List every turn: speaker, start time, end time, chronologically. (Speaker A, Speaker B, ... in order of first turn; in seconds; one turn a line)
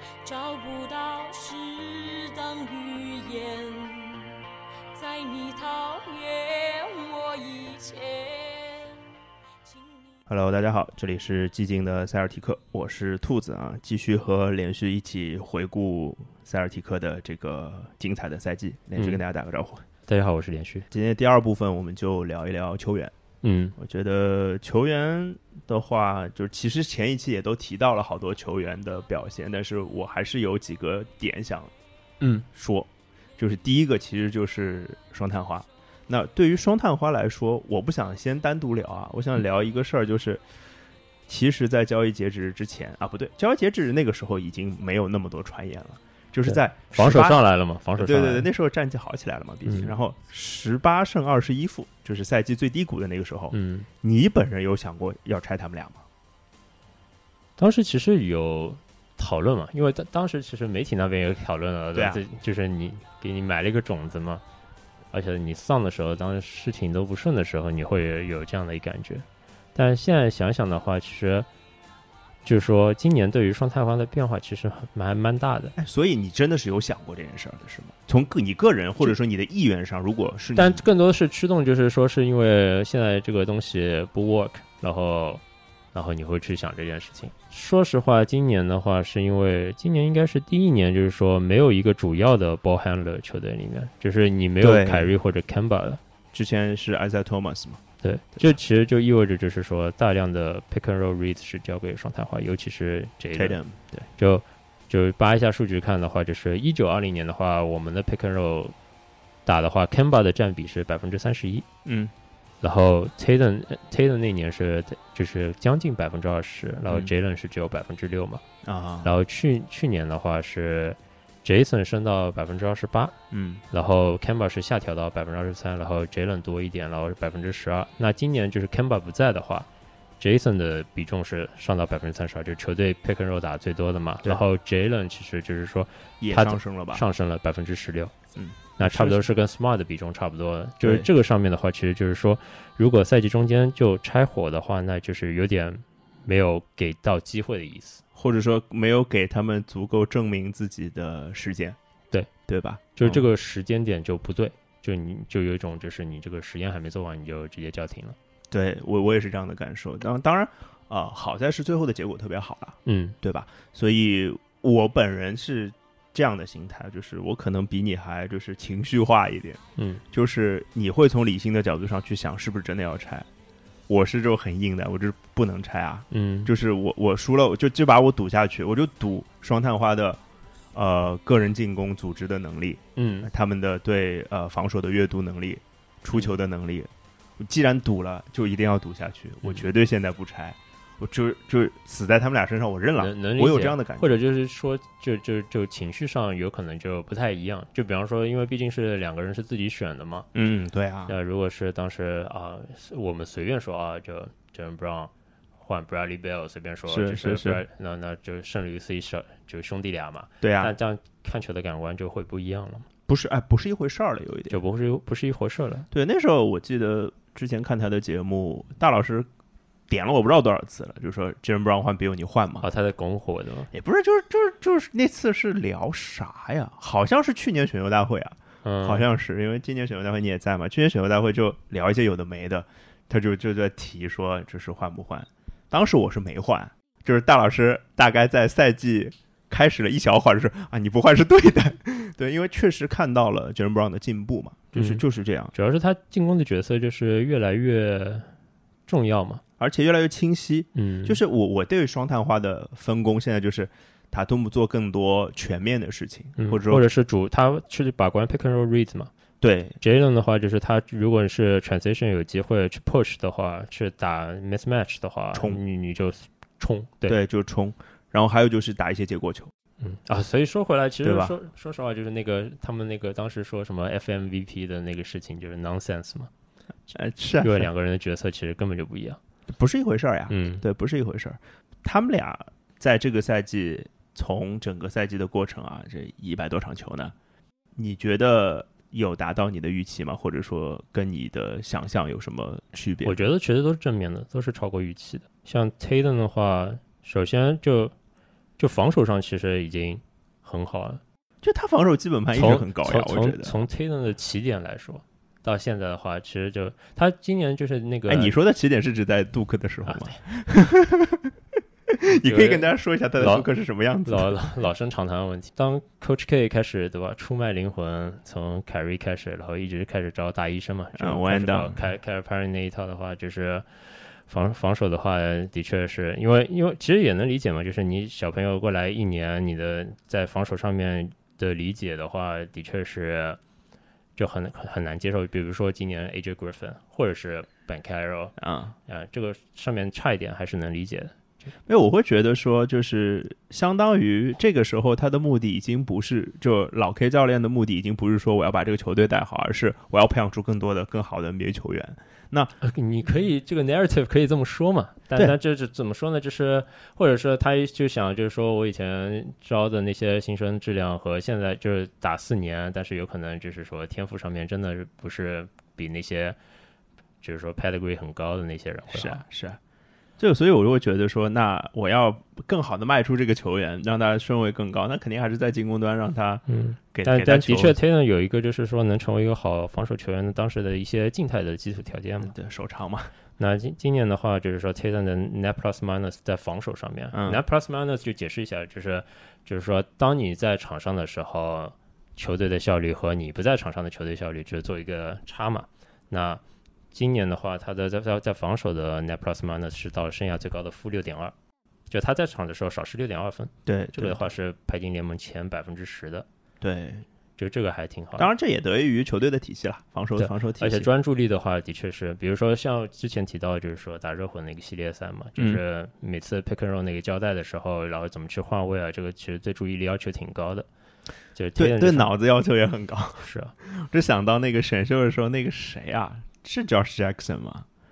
Speaker A: 0.2-4.4
Speaker A: 4.9-9.0
Speaker A: 9.6-10.1
Speaker B: 10.3-19.8
Speaker C: 20.1-20.9
Speaker B: 20.9-23.1
Speaker C: 23.4-23.7
Speaker B: 23.8-31.7
Speaker B: 32.5-40.4
Speaker B: 41.3-47.4
Speaker C: 46.5-48.5
Speaker B: 48.0-56.0
Speaker C: 49.6-49.9
Speaker C: 53.5-53.9
Speaker C: 57.6-64.4
Speaker B: 61.9-62.2
Speaker C: 65.1-71.5
Speaker C: 72.4-75.7
Speaker B: 75.8-80.8
Speaker C: 80.5-85.4
Speaker C: 85.9-96.0
Speaker B: 94.6-95.1
Speaker B: 96.3-97.8
Speaker C: 98.0-103.6
Speaker B: 103.3-104.1
Speaker C: 104.2-108.7
Speaker C: 109.5-111.7
Speaker B: 111.8-112.1
Speaker C: 112.6-118.4
Speaker B: 118.6-119.1
Speaker C: 119.0-123.2
Speaker B: 123.3-123.6
Speaker C: 123.7-129.7
Speaker C: 130.2-138.1
Speaker B: 136.2-137.0
Speaker B: 138.3-139.3
Speaker C: 138.8-148.0
Speaker B: 140.8-141.1
Speaker B: 148.1-151.8
Speaker B: 152.5-153.2
Speaker C: 152.9-158.2
Speaker B: 158.5-173.3
Speaker C: 162.8-163.2
Speaker C: 169.8-170.0
Speaker B: 173.9-180.2
Speaker C: 176.1-176.5
Speaker B: 180.7-194.1
Speaker C: 182.9-183.3
Speaker C: 193.0-200.3
Speaker B: 200.3-201.1
Speaker C: 201.1-212.9
Speaker B: 206.9-207.6
Speaker B: 210.4-210.7
Speaker B: 213.1-214.6
Speaker C: 214.5-215.9
Speaker B: 215.9-219.3
Speaker B: 219.9-222.6
Speaker C: 222.6-223.7
Speaker B: 223.7-245.5
Speaker C: 228.6-229.1
Speaker C: 244.8-248.3
Speaker C: 248.9-249.4
Speaker B: 249.6-256.8
Speaker C: 250.7-251.2
Speaker C: 256.4-259.1
Speaker B: 259.4-259.8
Speaker C: 259.8-267.1
Speaker B: 265.3-265.6
Speaker B: 267.1-269.5
Speaker C: 269.8-276.3
Speaker B: 271.0-271.3
Speaker B: 276.9-277.7
Speaker C: 277.4-279.2
Speaker B: 279.5-287.1
Speaker C: 280.3-280.6
Speaker B: 287.8-293.2
Speaker C: 293.0-297.9
Speaker C: 298.6-301.0
Speaker B: 301.4-303.6
Speaker C: 302.3-308.3
Speaker B: 308.1-311.3
Speaker C: 309.9-310.1
Speaker B: 311.9-314.4
Speaker C: 312.1-313.5
Speaker C: 314.1-323.6
Speaker B: 320.9-321.8
Speaker C: 324.3-333.4
Speaker C: 334.1-338.3
Speaker B: 338.4-338.7
Speaker C: 338.9-341.1
Speaker B: 341.7-352.5
Speaker C: 352.6-366.4
Speaker C: 367.2-369.2
Speaker B: 368.9-369.6
Speaker B: 370.2-377.8
Speaker C: 376.5-382.3
Speaker B: 382.2-383.1
Speaker C: 383.4-396.4
Speaker B: 387.1-387.4
Speaker C: 396.9-401.3
Speaker C: 401.9-406.2
Speaker B: 403.6-404.2
Speaker B: 406.6-407.1
Speaker C: 407.4-408.3
Speaker B: 408.2-410.9
Speaker C: 410.2-420.7
Speaker C: 421.3-422.1
Speaker B: 421.6-427.7
Speaker C: 423.2-423.5